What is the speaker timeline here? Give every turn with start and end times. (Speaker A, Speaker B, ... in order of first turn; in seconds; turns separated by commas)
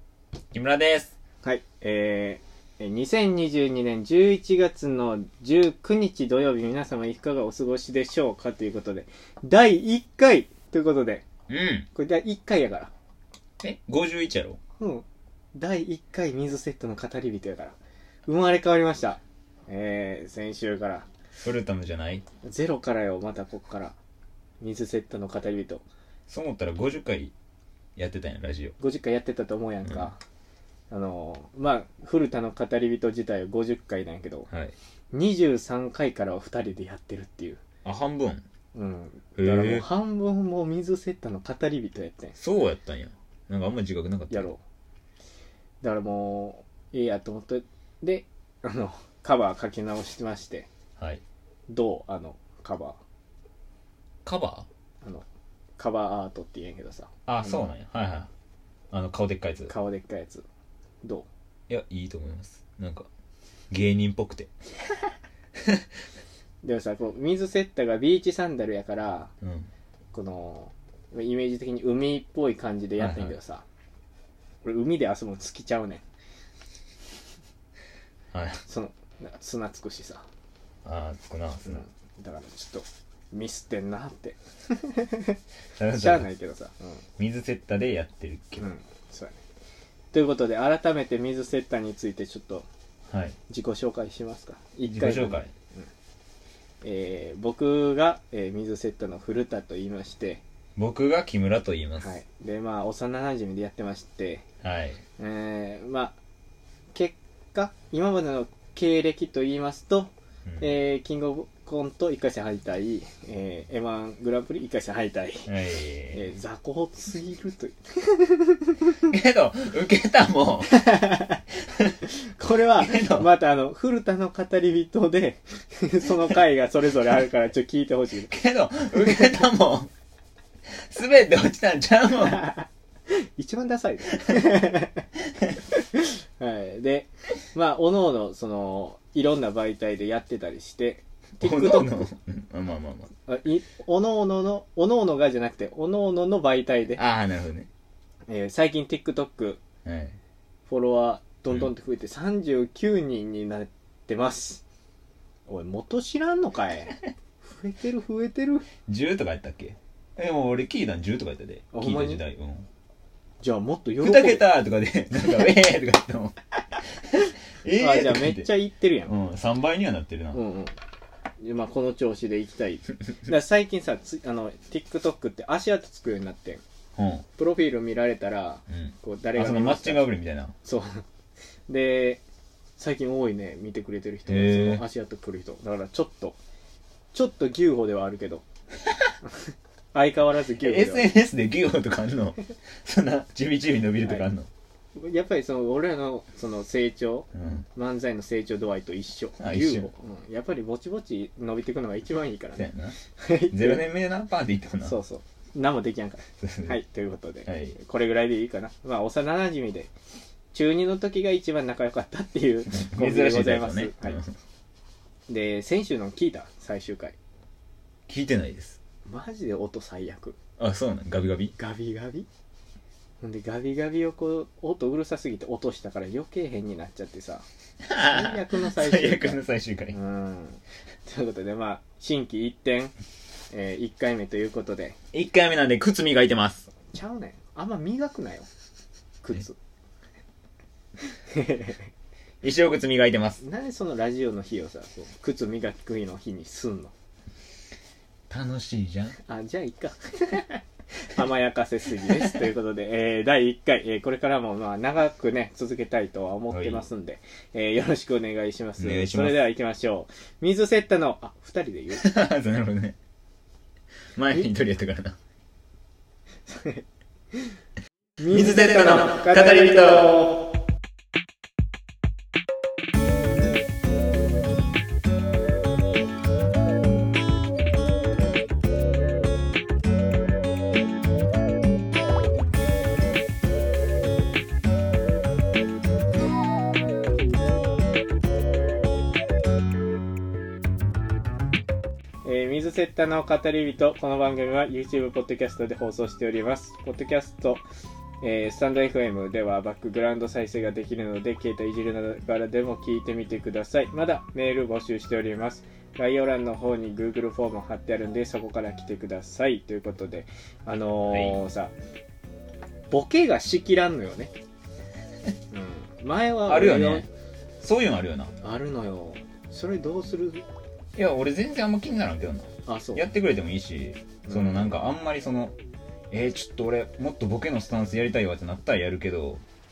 Speaker A: 0.5-1.1, Speaker B: 1.4-11.3, Speaker A: 11.5-11.9, Speaker B: 11.9-12.9, Speaker A: 13.6-14.6, Speaker B: 14.8-21.1, Speaker A: 21.4-22.2, Speaker B: 22.4-24.0, Speaker B: 24.6-25.8, Speaker A: 26.3-27.3, Speaker A: 28.0-28.8, Speaker B: 28.8-30.2, Speaker B: 30.9-34.5, Speaker A: 34.5-34.8, Speaker B: 35.1-37.6, Speaker A: 37.9-38.5, Speaker B: 38.7-42.4, Speaker A: 39.4-39.9, Speaker A: 42.4-44.5, Speaker B: 44.3-44.6, Speaker B: 45.8-50.7, Speaker B: 51.7-53.0, Speaker A: 54.2-54.7, Speaker B: 55.8-57.7, Speaker A: 57.3-58.3, Speaker A: 58.9-59.7, Speaker B: 59.7-60.5, Speaker B: 61.0-61.3, Speaker A: 61.7-63.1, Speaker A: 63.7-64.5, Speaker A: 65.6-65.9, Speaker B: 66.6-69.3, Speaker A: 69.4-69.7, Speaker B: 70.1-73.7, Speaker A: 73.0-73.3, Speaker B: 74.6-76.0, Speaker A: 78.3-78.6, Speaker B: 78.7-80.2, Speaker A: 80.8-81.8, Speaker B: 81.7-85.4, Speaker A: 85.8-86.3, Speaker B: 85.9-87.0, Speaker A: 87.2-88.7, Speaker B: 88.6-89.4, Speaker B: 90.1-92.7, Speaker A: 93.1-93.4, Speaker B: 93.5-95.9, Speaker A: 94.8-95.5, Speaker B: 96.8-100.4, Speaker A: 100.8-102.2, Speaker B: 102.0-104.4, Speaker A: 104.6-105.0, Speaker B: 105.2-106.2, Speaker B: 106.9-115.5, Speaker A: 115.5-116.2, Speaker B: 116.1-119.0, Speaker A: 119.1-120.9, Speaker B: 120.7-121.4, Speaker B: 122.0-128.3, Speaker A: 122.7-123.3, Speaker A: 128.3-129.9, Speaker B: 129.0-129.4, Speaker A: 130.7-132.4, Speaker B: 132.2-135.1, Speaker B: 135.7-142.1, Speaker A: 141.4-143.1, Speaker B: 143.3-147.0, Speaker A: 147.0-147.7, Speaker B: 148.3-149.6, Speaker A: 149.8-150.2, Speaker B: 150.7-154.6, Speaker B: 155.5-158.7, Speaker A: 158.9-162.7, Speaker B: 161.7-162.2, Speaker B: 163.4-164.5, Speaker A: 164.0-166.4, Speaker A: 167.0-168.5, Speaker B: 167.8-169.2, Speaker A: 169.1-170.4, Speaker B: 170.3-170.8, Speaker B: 171.4-176.6, Speaker A: 177.0-177.3, Speaker B: 177.4-180.1, Speaker A: 178.7-180.5, Speaker B: 180.6-181.1, Speaker B: 181.7-182.2, Speaker B: 182.8-186.4, Speaker A: 184.3-184.8, Speaker B: 187.1-188.4, Speaker B: 189.3-191.1, Speaker A: 190.6-194.5, Speaker B: 194.9-203.8, Speaker A: 197.3-197.7, Speaker A: 199.4-199.9, Speaker A: 202.6-203.0, Speaker A: 203.5-205.0, Speaker B: 204.8-209.9, Speaker A: 206.4-206.8, Speaker A: 207.5-207.8, Speaker B: 210.5-214.2, Speaker A: 212.7-214.4, Speaker B: 215.3-217.2, Speaker A: 218.1-218.8, Speaker B: 219.1-220.4, Speaker A: 220.6-221.6, Speaker B: 221.6-222.3, Speaker B: 223.2-229.4, Speaker A: 227.8-230.0, Speaker B: 229.9-232.9, Speaker B: 233.5-235.0, Speaker A: 235.1-236.7, Speaker B: 236.9-238.5, Speaker B: 239.2-239.6, Speaker B: 241.3-241.8, Speaker A: 242.4-243.4, Speaker B: 243.4-246.9, Speaker A: 248.3-249.2, Speaker B: 249.2-262.1, Speaker A: 256.5-256.9, Speaker A: 258.8-259.5, Speaker A: 262.0-263.0, Speaker A: 264.2-265.2, Speaker B: 266.5-267.5, Speaker B: 268.2-270.4, Speaker A: 268.3-270.2, Speaker B: 292.2-297.6, Speaker B: 298.2-311.7, Speaker A: 311.1-311.4, Speaker B: 312.9-314.3, Speaker B: 315.5-317.1, Speaker A: 316.4-317.1, Speaker A: 317.6-318.3, Speaker B: 318.4-320.4, Speaker A: 321.0-325.5, Speaker B: 322.6-323.1, Speaker B: 324.2-324.9, Speaker A: 326.1-329.4